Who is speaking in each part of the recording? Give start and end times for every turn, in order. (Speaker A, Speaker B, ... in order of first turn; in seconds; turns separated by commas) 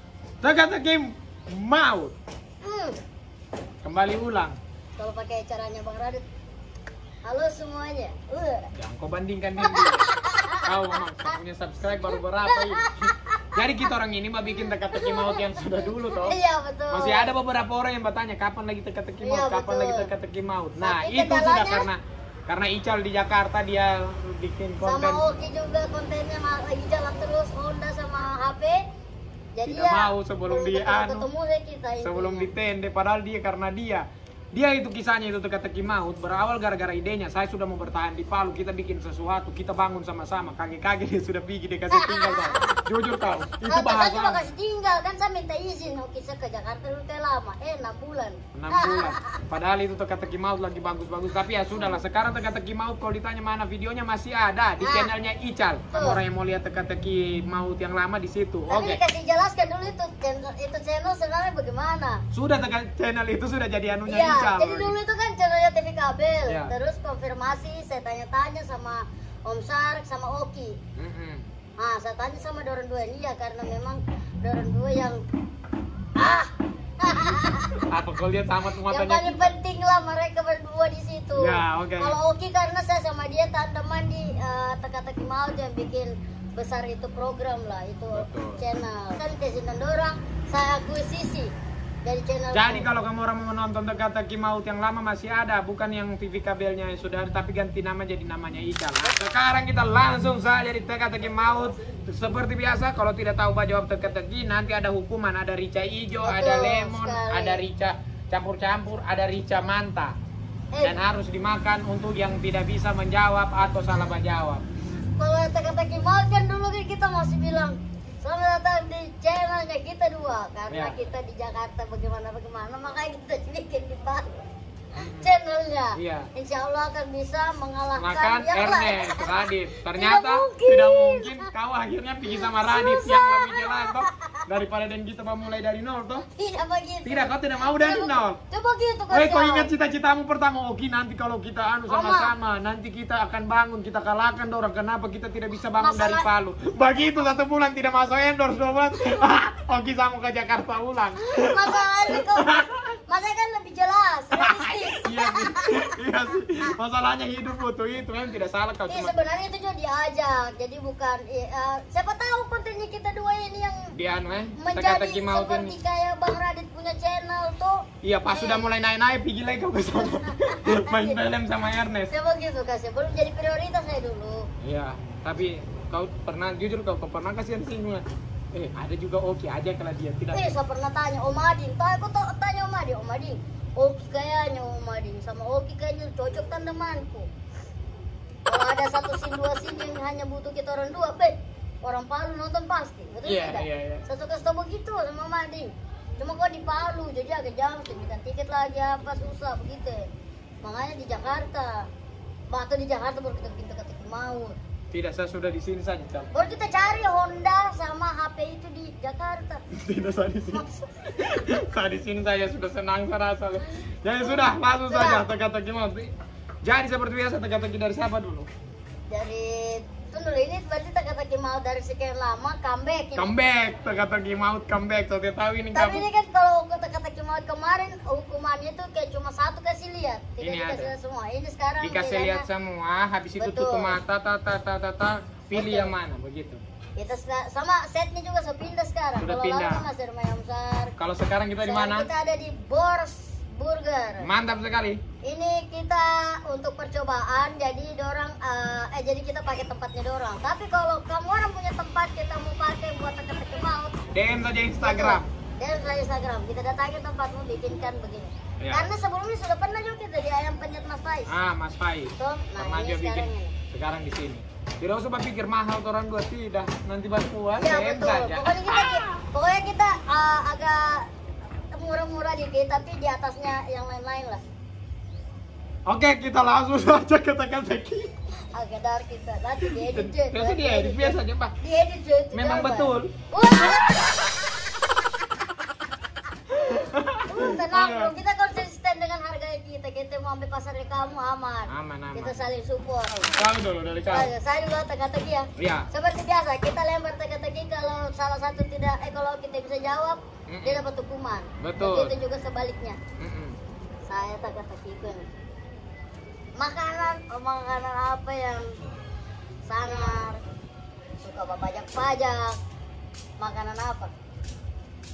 Speaker A: 0.4-2.2, Speaker B: 2.6-3.0, Speaker A: 3.8-4.6, Speaker B: 5.0-6.2, Speaker B: 7.2-8.7, Speaker A: 8.8-10.1, Speaker B: 9.6-11.4, Speaker A: 10.6-16.4, Speaker B: 12.1-13.6, Speaker B: 14.9-15.4, Speaker B: 16.1-17.3, Speaker A: 16.9-25.3, Speaker B: 19.2-20.1, Speaker B: 20.8-21.9, Speaker B: 24.8-28.8, Speaker B: 29.6-32.5, Speaker A: 29.7-31.3, Speaker A: 32.0-44.4, Speaker B: 41.9-42.8, Speaker B: 43.7-49.4, Speaker A: 48.5-59.0, Speaker B: 54.8-55.1, Speaker B: 55.9-56.2, Speaker B: 58.7-62.2, Speaker A: 62.3-65.0, Speaker B: 64.1-70.8, Speaker A: 66.5-66.7, Speaker A: 71.0-71.5, Speaker B: 71.8-75.2, Speaker B: 76.2-77.9, Speaker A: 77.9-79.5, Speaker B: 78.9-92.9, Speaker A: 81.4-82.2, Speaker A: 88.2-88.6, Speaker A: 92.5-110.2, Speaker B: 106.2-107.6, Speaker B: 110.7-111.0, Speaker A: 110.8-114.7, Speaker B: 115.2-124.3, Speaker A: 120.7-121.0, Speaker A: 125.0-125.3, Speaker B: 125.2-131.5, Speaker A: 126.0-126.3, Speaker A: 128.0-136.3, Speaker B: 132.3-134.4, Speaker B: 136.3-139.7, Speaker A: 137.1-138.4, Speaker A: 139.1-152.7, Speaker B: 141.9-142.3, Speaker B: 145.8-146.3, Speaker B: 151.2-155.8, Speaker A: 154.3-159.2, Speaker B: 158.9-163.9, Speaker A: 163.9-165.8, Speaker B: 164.6-168.7, Speaker A: 168.0-172.1, Speaker B: 169.9-171.2, Speaker B: 172.1-174.5, Speaker A: 174.6-180.5, Speaker B: 180.3-187.3, Speaker B: 188.5-200.1, Speaker A: 193.2-194.0, Speaker B: 200.6-201.9, Speaker B: 202.5-204.6, Speaker A: 204.9-206.3, Speaker B: 206.3-209.6, Speaker A: 209.7-216.1, Speaker B: 214.2-215.3, Speaker A: 216.6-218.5, Speaker B: 219.1-223.3, Speaker A: 223.2-226.0, Speaker B: 225.7-232.5, Speaker A: 230.4-230.9, Speaker A: 231.8-236.6, Speaker B: 233.4-234.0, Speaker B: 235.5-235.9, Speaker B: 237.0-241.0, Speaker A: 239.2-239.8, Speaker A: 241.0-242.1, Speaker B: 241.6-244.3, Speaker A: 244.2-245.0, Speaker B: 245.2-254.0, Speaker A: 254.1-255.3, Speaker B: 254.8-261.3, Speaker A: 258.6-258.9, Speaker A: 261.3-268.6, Speaker B: 262.2-263.5, Speaker B: 267.6-271.1, Speaker B: 271.7-274.4, Speaker A: 275.9-278.1, Speaker B: 278.5-284.1, Speaker A: 279.6-281.6, Speaker A: 282.3-283.1, Speaker A: 286.5-288.1, Speaker B: 287.3-293.3, Speaker A: 291.7-292.4, Speaker A: 293.2-294.3, Speaker B: 294.1-303.0, Speaker A: 295.6-295.9, Speaker A: 300.5-300.8, Speaker A: 301.6-302.1, Speaker A: 303.2-303.6, Speaker B: 304.1-305.3, Speaker B: 306.6-308.8, Speaker B: 309.6-310.4, Speaker B: 311.2-312.6, Speaker B: 313.4-314.1